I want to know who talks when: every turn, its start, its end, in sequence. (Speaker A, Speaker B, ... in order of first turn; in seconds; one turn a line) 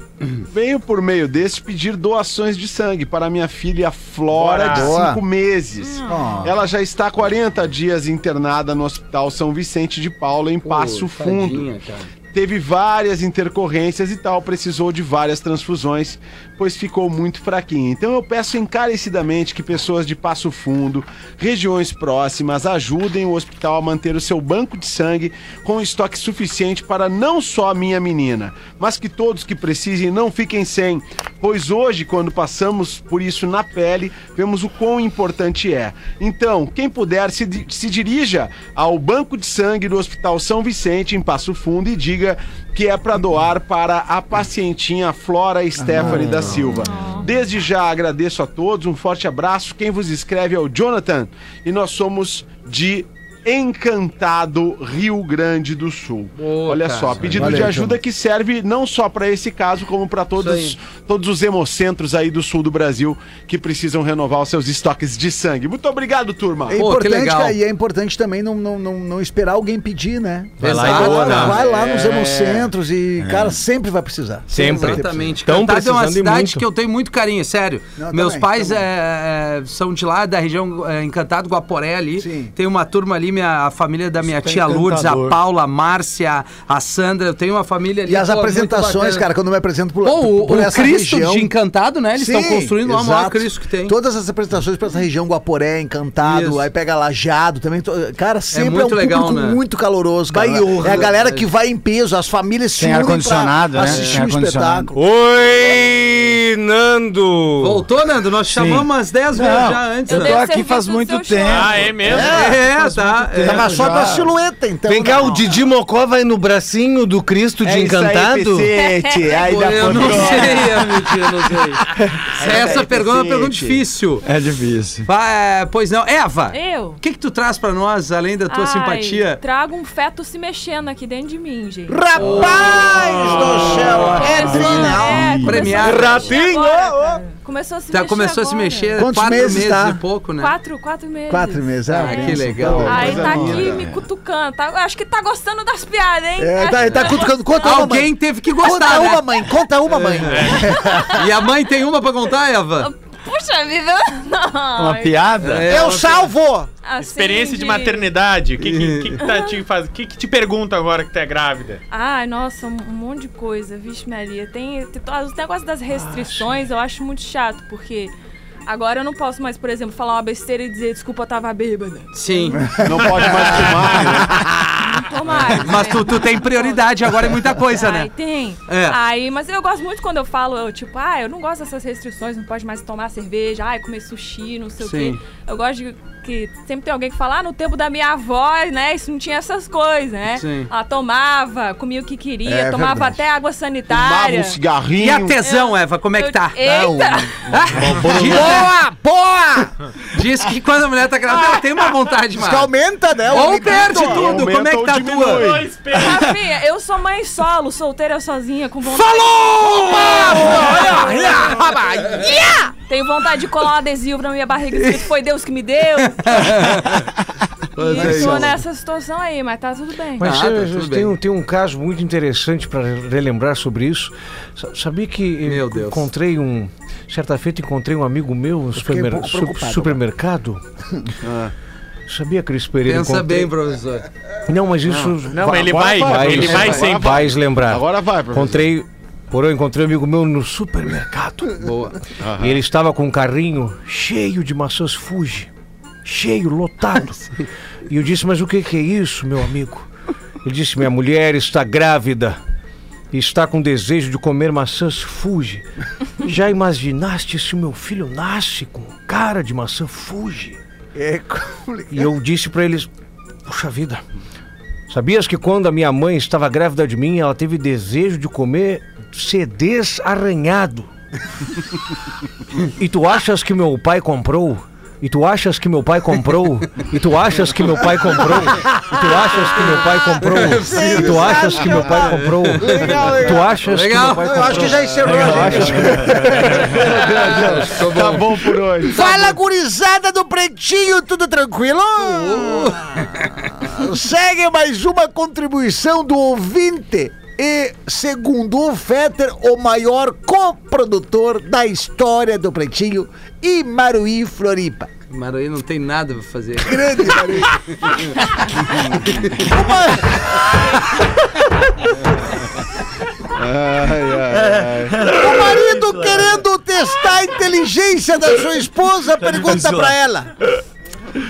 Speaker A: 0.5-11.7
Speaker B: 4.3-5.0
Speaker C: 4.7-5.2
Speaker D: 5.8-6.4
Speaker C: 6.1-6.5
Speaker E: 10.6-12.1
Speaker A: 12.3-66.8
Speaker C: 45.8-46.4
Speaker F: 46.0-46.7
Speaker D: 46.8-47.3
Speaker E: 56.4-57.9
Speaker E: 60.4-60.8
Speaker C: 66.7-75.3
Speaker E: 66.7-67.6
Speaker F: 70.6-71.6
Speaker E: 70.6-71.6
Speaker A: 70.8-72.7
Speaker E: 74.5-89.3
Speaker F: 74.5-76.6
Speaker C: 78.0-78.8
Speaker C: 82.2-82.5
Speaker F: 84.3-85.4
Speaker C: 88.0-91.5
Speaker E: 90.0-94.0
Speaker C: 92.2-104.9
Speaker E: 96.2-96.7
Speaker E: 98.5-99.6
Speaker F: 100.3-101.2
Speaker E: 100.7-101.5
Speaker G: 102.8-104.9
Speaker E: 103.8-104.1
Speaker F: 104.9-107.8
Speaker D: 105.5-105.9
Speaker E: 107.6-110.4
Speaker G: 108.5-114.3
Speaker D: 110.1-111.9
Speaker B: 111.4-112.4
Speaker C: 112.0-112.6
Speaker E: 112.1-113.8
Speaker C: 113.4-115.5
Speaker F: 114.8-118.7
Speaker A: 117.6-120.9
Speaker D: 118.7-120.7
Speaker E: 119.4-121.8
Speaker A: 122.3-123.8
Speaker E: 122.3-124.2
Speaker C: 122.5-122.8
Speaker G: 124.2-125.1
Speaker E: 125.0-129.4
Speaker D: 126.5-127.0
Speaker D: 128.5-132.9
Speaker C: 131.9-135.4
Speaker E: 132.2-134.1
Speaker A: 133.2-133.9
Speaker G: 133.6-135.8
Speaker D: 133.9-139.1
Speaker E: 135.3-136.3
Speaker F: 135.8-137.2
Speaker E: 137.9-140.5
Speaker C: 139.0-140.0
Speaker D: 140.4-147.9
Speaker C: 141.3-143.5
Speaker E: 141.9-143.7
Speaker A: 142.6-143.8
Speaker C: 146.4-151.1
Speaker E: 147.6-149.3
Speaker E: 149.8-152.9
Speaker B: 150.2-150.9
Speaker D: 150.8-151.3
Speaker D: 152.8-155.3
Speaker G: 154.8-155.7
Speaker E: 155.4-156.3
Speaker C: 155.7-156.7
Speaker D: 156.8-158.1
Speaker B: 157.0-161.8
Speaker E: 158.6-159.2
Speaker D: 159.2-159.6
Speaker D: 161.9-168.1
Speaker F: 165.9-166.4
Speaker D: 168.7-194.6
Speaker E: 172.1-172.7
Speaker C: 172.6-173.6
Speaker A: 172.8-174.4
Speaker E: 175.6-178.1
Speaker E: 178.7-179.0
Speaker E: 184.8-185.2
Speaker E: 190.4-190.7
Speaker C: 192.4-193.2
Speaker A: 193.9-195.4
Speaker E: 195.0-196.9
Speaker D: 195.4-197.4
Speaker C: 196.6-197.2
Speaker E: 197.5-198.7
Speaker F: 197.7-198.7
Speaker C: 198.0-199.8
Speaker E: 200.1-202.7
Speaker C: 202.4-204.3
Speaker E: 203.3-205.5
Speaker A: 203.6-205.7
Speaker B: 205.3-206.4
Speaker D: 205.9-217.0
Speaker C: 208.9-212.7
Speaker E: 210.2-211.0
Speaker E: 214.7-215.0
Speaker E: 216.0-217.1
Speaker E: 217.8-218.6
Speaker D: 217.8-220.3
Speaker C: 217.9-218.5
Speaker F: 220.2-230.6
Speaker E: 220.2-221.2
Speaker E: 225.4-226.1
Speaker C: 228.7-230.0
Speaker A: 231.2-231.5
Speaker F: 232.1-233.5
Speaker E: 232.8-234.1
Speaker F: 234.5-241.5
Speaker A: 234.9-238.7
Speaker B: 235.3-237.2
Speaker E: 241.6-242.0
Speaker A: 242.2-242.6
Speaker F: 242.4-245.5
Speaker F: 246.0-247.3
Speaker F: 247.9-249.9
Speaker F: 250.4-252.4
Speaker F: 253.1-255.6
Speaker F: 256.2-260.6
Speaker C: 260.9-262.1
Speaker F: 261.9-262.9
Speaker F: 263.4-264.0
Speaker F: 264.9-270.9
Speaker F: 272.6-286.7
Speaker E: 280.2-289.3
Speaker C: 280.3-287.8
Speaker A: 285.1-285.5
Speaker A: 286.6-289.3
Speaker C: 288.9-304.9
Speaker E: 292.0-293.5
Speaker E: 305.1-308.1
Speaker C: 306.6-310.5
Speaker E: 308.9-309.4
Speaker A: 313.4-315.1
Speaker F: 314.3-316.4
Speaker C: 315.1-320.3
Speaker F: 319.2-319.9